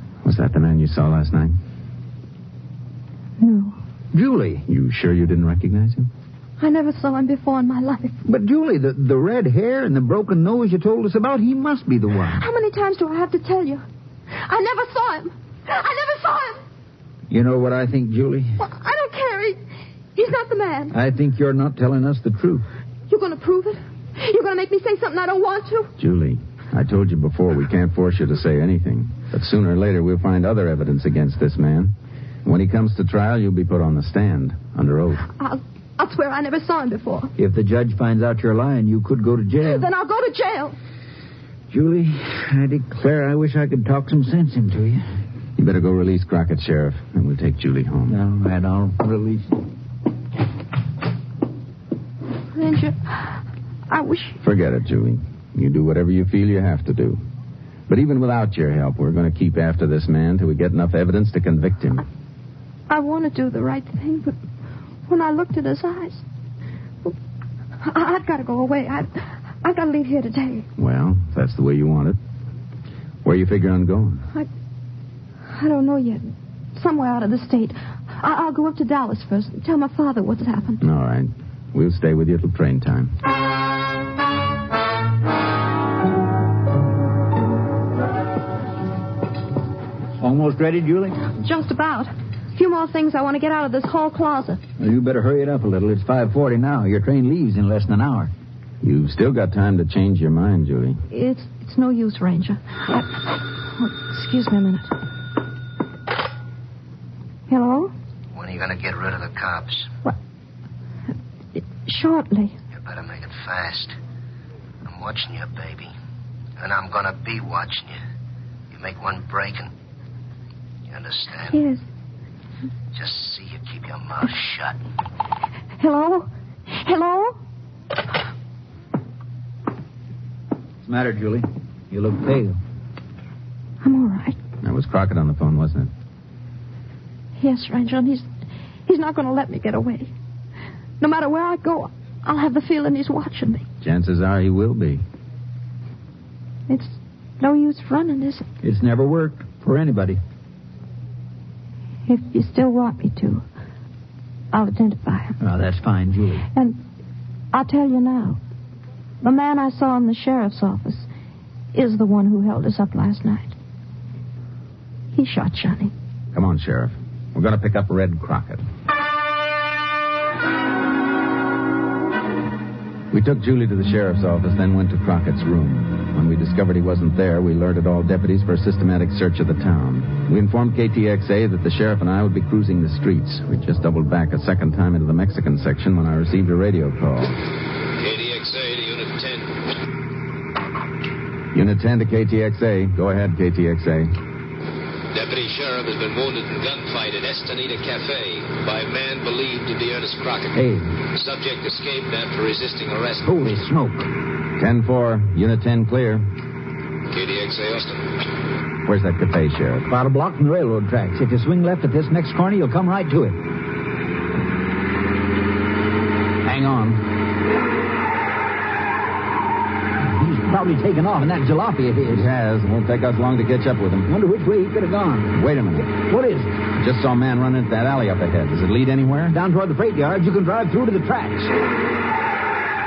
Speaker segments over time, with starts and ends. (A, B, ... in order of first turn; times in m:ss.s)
0:00.2-0:01.6 A
0:03.4-0:03.8 B
0:04.1-0:04.6 C
0:04.7-0:06.1 A
0:06.6-0:08.2 B
0:08.3-0:12.4 C
0:12.3-0:13.8 B
0:14.3-0:16.6 B
0:17.3-0:18.6 C
0:18.6-0:19.6 B
0:20.2-0:21.0 B
0:20.9-0:22.6 C
0:23.1-0:25.9 B
0:26.0-0:31.9 A
0:32.4-0:35.3 A
0:35.3-0:37.3 B
0:37.4-0:39.9 C
0:39.6-0:40.8 B
0:41.7-0:45.0 C
0:45.6-0:48.2 A
0:48.1-0:49.6 C
0:52.5-0:54.4 B
0:54.4-0:57.2 A
0:57.9-1:02.0 A
1:02.9-1:04.4 B
1:05.1-1:06.2 B
1:07.8-1:10.7 B
1:10.8-1:12.2 A
1:13.2-1:14.3 A
1:15.5-1:20.8 B
1:20.8-1:23.1 A
1:30.2-1:31.2 C
1:31.3-1:34.6 B
1:34.8-1:38.3 C
1:38.8-1:41.0 A
1:41.1-1:44.9 B
1:47.5-1:47.9 B
1:48.3-1:49.9 D
1:51.6-1:52.6 B
1:52.7-1:54.0 D
1:54.8-1:55.9 D
1:56.6-1:58.0 D
1:58.7-1:59.7 D
2:00.9-2:01.6 D
2:01.5-2:01.8 B
2:02.9-2:04.8 D
2:05.8-2:07.4 B
2:10.8-2:12.6 C
2:13.8-2:14.4 B
2:14.6-2:15.9 A
2:17.4-2:18.2 B
2:18.9-2:20.1 B
2:21.0-2:23.7 B
2:23.8-2:25.0 A
2:26.7-2:28.5 B
2:28.6-2:30.2 C
2:32.1-2:33.4 B
2:34.5-2:35.4 B
2:35.4-2:36.4 C
2:36.5-2:36.8 B
2:37.5-2:38.4 B
2:39.2-2:41.1 B
2:41.7-2:43.5 B
2:45.1-2:45.9 B
2:46.3-2:48.6 A
2:53.1-3:07.4 A
3:08.0-3:09.5 E
3:11.5-3:14.2 A
3:15.1-3:20.6 E
3:20.5-3:20.9 C
3:21.1-3:23.2 E
3:23.2-3:24.1 C
3:24.6-3:26.3 A
3:27.1-3:28.1 E
3:28.8-3:29.9 A
3:29.9-3:33.4 C
3:36.4-3:37.0 A
3:40.0-3:42.3 C
3:42.1-3:44.1 A
3:44.0-3:46.5 C
3:45.4-3:45.9 A
3:46.8-3:49.4 A
3:49.3-3:51.5 C